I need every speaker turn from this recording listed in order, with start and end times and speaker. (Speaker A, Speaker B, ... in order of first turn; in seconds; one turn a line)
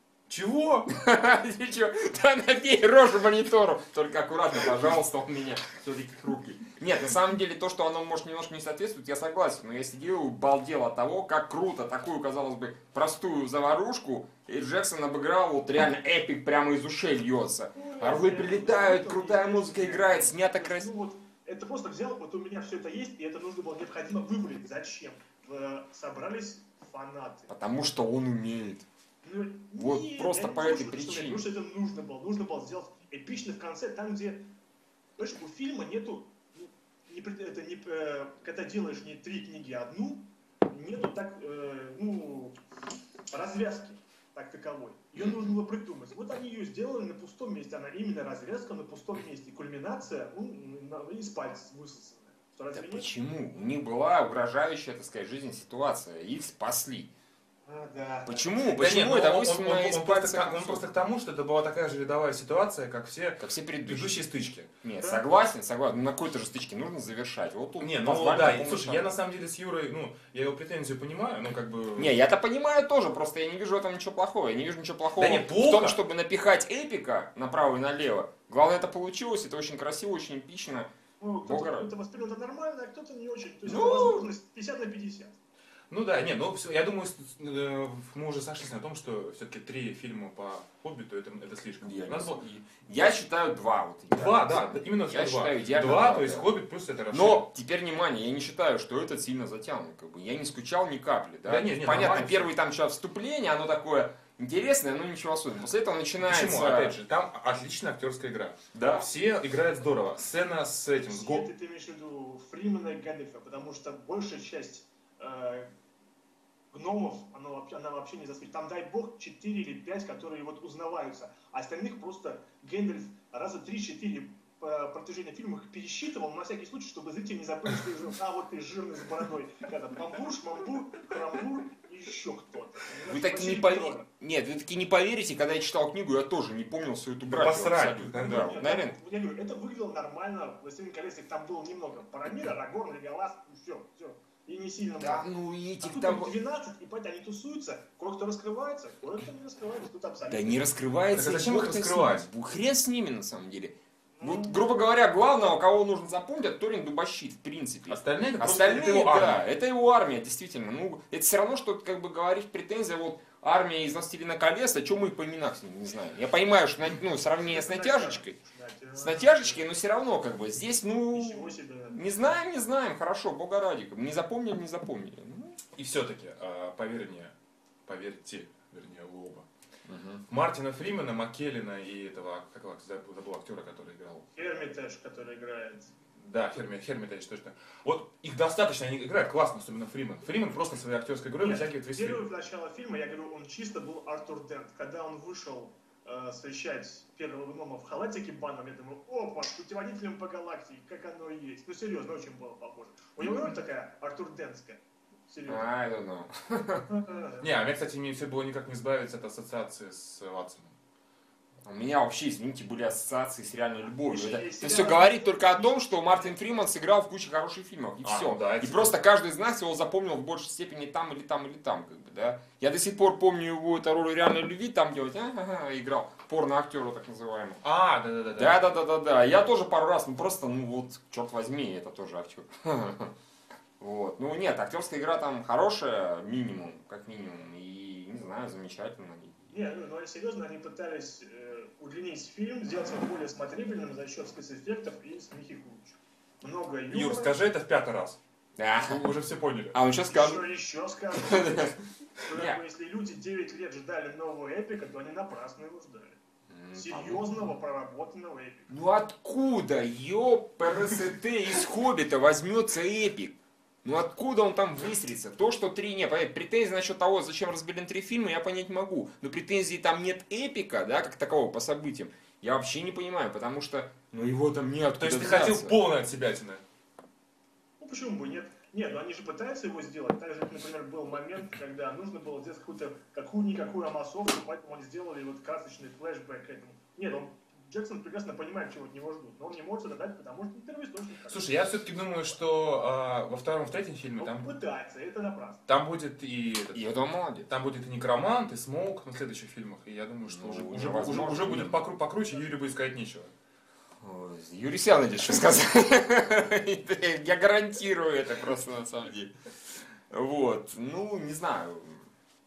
Speaker A: 0.3-0.9
Speaker B: 0.9-20.9
Speaker C: 17.7-27.5
Speaker B: 27.5-28.9
Speaker C: 29.2-34.5
Speaker B: 29.7-31.5
Speaker C: 35.2-42.6
Speaker C: 43.3-53.1
Speaker B: 52.7-57.1
Speaker C: 57.6-58.6
Speaker B: 58.2-60.9
Speaker A: 58.7-64.7
Speaker B: 63.4-64.2
Speaker B: 64.8-69.1
Speaker C: 65.0-65.2
Speaker A: 67.8-72.1
Speaker B: 72.0-80.9
Speaker A: 75.1-76.0
Speaker C: 81.2-85.4
Speaker B: 81.4-81.9
Speaker B: 83.7-84.3
Speaker A: 85.9-92.5
Speaker B: 91.8-96.5
Speaker A: 94.1-97.5
Speaker B: 97.1-107.0
Speaker A: 101.4-102.5
Speaker A: 106.2-111.5
Speaker B: 108.7-109.1
Speaker C: 111.0-115.7
Speaker C: 116.7-134.0
Speaker B: 133.1-139.0
Speaker A: 137.2-138.5
Speaker C: 138.1-145.3
Speaker B: 145.0-146.3
Speaker C: 145.8-150.7
Speaker B: 150.3-168.4
Speaker A: 151.1-152.3
Speaker C: 154.2-154.6
Speaker A: 157.9-159.4
Speaker C: 167.4-169.7
Speaker B: 168.9-175.6
Speaker C: 171.1-172.3
Speaker A: 175.8-177.3
Speaker A: 177.9-179.4
Speaker B: 179.9-180.2
Speaker A: 180.3-184.2
Speaker C: 184.3-185.9
Speaker A: 186.2-192.2
Speaker C: 191.4-205.7
Speaker B: 205.4-206.9
Speaker C: 206.9-207.5
Speaker A: 207.4-210.7
Speaker B: 211.6-227.6
Speaker C: 214.0-216.3
Speaker A: 218.0-219.0
Speaker A: 227.6-228.7
Speaker B: 228.3-233.1
Speaker B: 233.8-239.4
Speaker C: 239.5-247.4
Speaker A: 246.9-248.2
Speaker B: 248.6-249.1
Speaker A: 248.8-249.8
Speaker B: 249.7-250.5
Speaker C: 250.1-256.2
Speaker B: 251.1-252.6
Speaker B: 256.5-257.5
Speaker C: 256.7-258.7
Speaker B: 258.7-275.8
Speaker A: 275.0-276.6
Speaker C: 277.8-291.6
Speaker A: 291.3-294.6
Speaker C: 294.2-295.6
Speaker A: 295.7-296.8
Speaker B: 296.7-297.5
Speaker A: 297.4-303.3
Speaker B: 300.2-301.8
Speaker B: 304.0-309.3
Speaker B: 310.1-312.0